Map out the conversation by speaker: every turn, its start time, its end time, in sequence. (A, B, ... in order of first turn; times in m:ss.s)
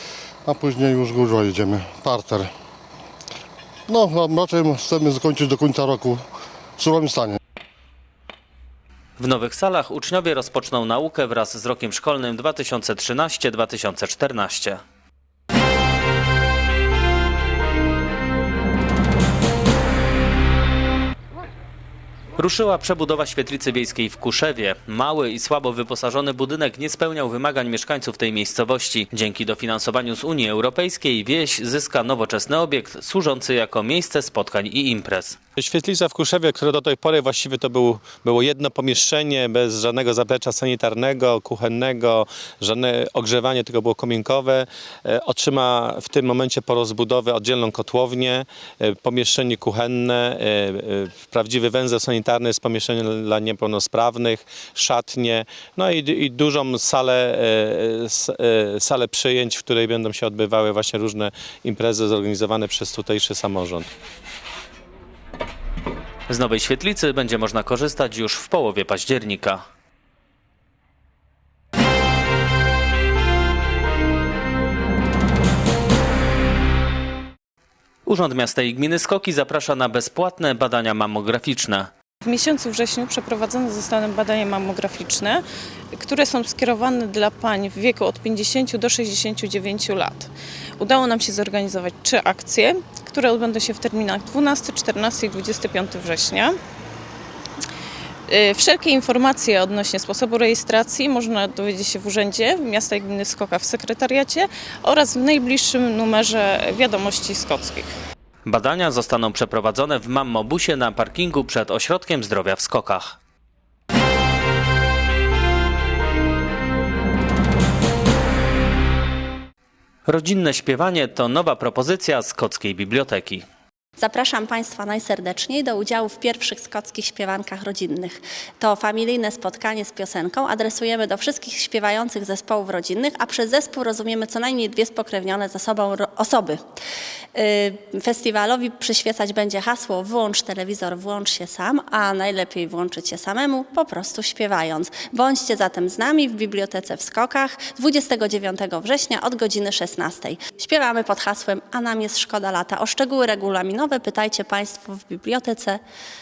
0:00.5-0:02.5 A
0:03.9-0:06.2 A
0:06.8-0:07.4 A
0:09.2-0:14.8 B
0:22.4-0:35.4 B
0:35.6-1:03.9 C
1:06.3-1:09.6 B
1:18.1-1:21.9 B
1:22.2-1:25.4 D
1:26.0-1:36.6 D
1:38.3-1:47.9 D
1:48.4-1:53.2 B
2:00.1-2:03.4 B
2:04.0-2:16.6 E
2:17.3-2:35.8 E